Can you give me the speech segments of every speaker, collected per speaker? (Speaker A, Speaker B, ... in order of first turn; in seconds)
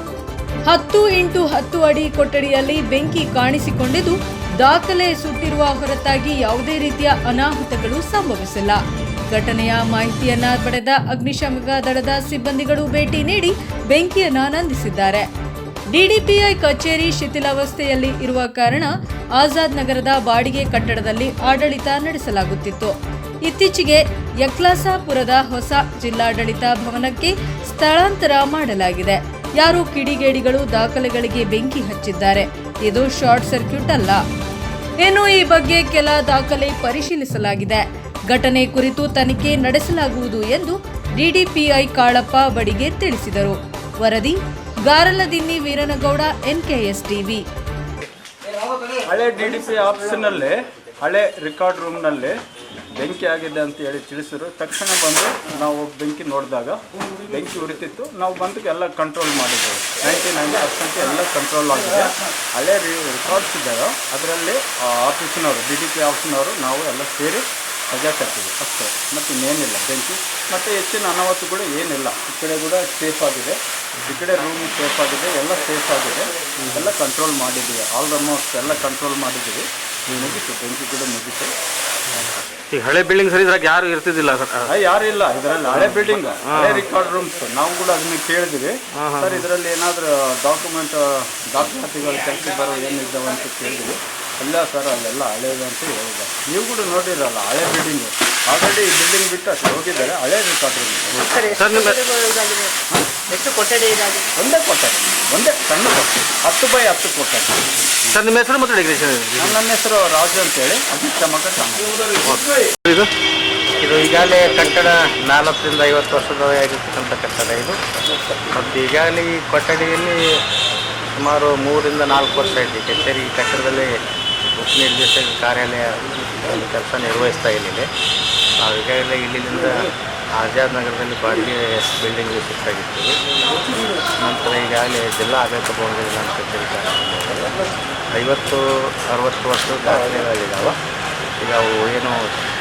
Speaker A: 0.7-8.8, 9.3-15.3, 15.9-22.9, 23.5-34.2, 35.0-47.4
Speaker B: 49.1-52.4, 52.9-81.5, 82.2-82.5, 84.7-101.2, 104.4-107.6, 109.4-112.0
Speaker C: 80.1-80.4, 82.2-84.7, 85.8-86.8, 89.0-89.4, 101.3-102.1, 108.1-109.6, 112.2-113.1
Speaker D: 101.3-102.7, 103.3-104.2
Speaker E: 113.8-117.8, 118.5-120.2, 121.2-123.9, 124.6-127.9, 128.6-133.2, 134.2-137.5, 138.1-140.8, 141.4-142.2